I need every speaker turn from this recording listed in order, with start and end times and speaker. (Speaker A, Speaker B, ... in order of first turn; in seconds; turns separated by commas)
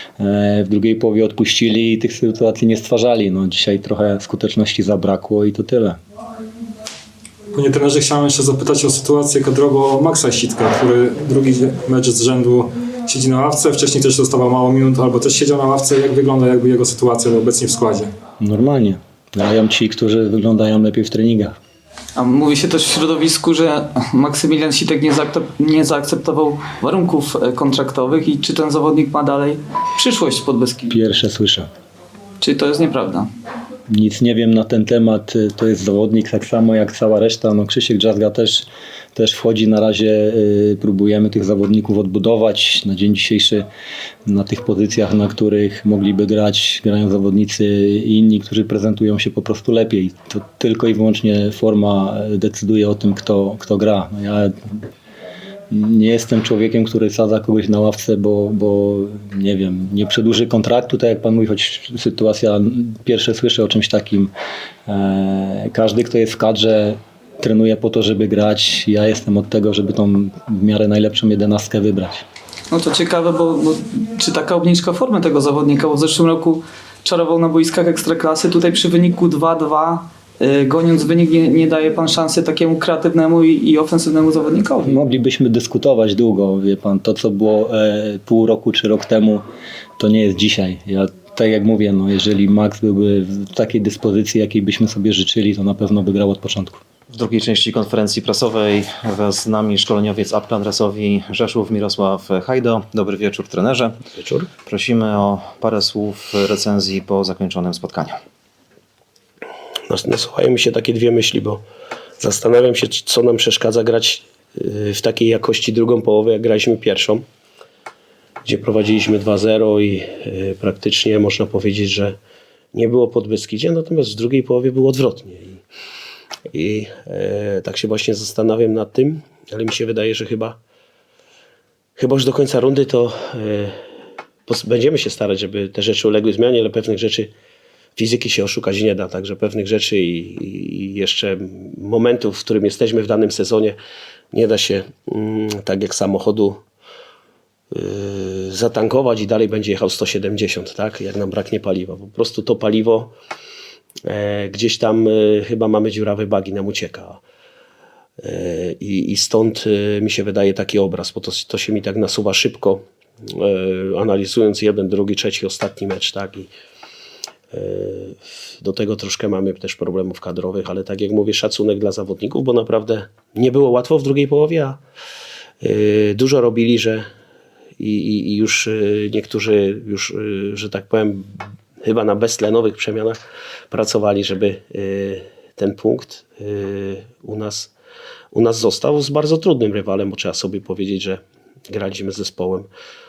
Speaker A: 0.2-6.0, Speaker B: 7.5-18.1, Speaker A: 18.4-21.5, Speaker C: 22.1-30.9, Speaker A: 30.9-31.7, Speaker C: 32.4-33.3, Speaker A: 33.9-43.7, Speaker A: 44.2-54.5, Speaker A: 55.7-64.3, Speaker A: 64.9-72.2, Speaker C: 72.7-85.0, Speaker A: 84.8-89.4, Speaker A: 90.0-96.8, Speaker D: 97.1-104.0, Speaker E: 104.2-104.5, Speaker D: 104.5-108.2, Speaker E: 109.9-111.6, Speaker E: 112.2-117.2, Speaker E: 118.5-122.2, Speaker E: 122.7-125.6, Speaker E: 126.5-130.6, Speaker E: 132.0-133.8, Speaker E: 134.5-137.3, Speaker E: 138.0-143.8, Speaker E: 144.3-146.6, Speaker E: 147.7-153.1, Speaker E: 154.1-157.2, Speaker E: 158.2-166.5, Speaker E: 167.5-174.8, Speaker E: 175.6-177.1, Speaker E: 177.8-183.2, Speaker E: 183.7-187.7, Speaker E: 188.3-192.7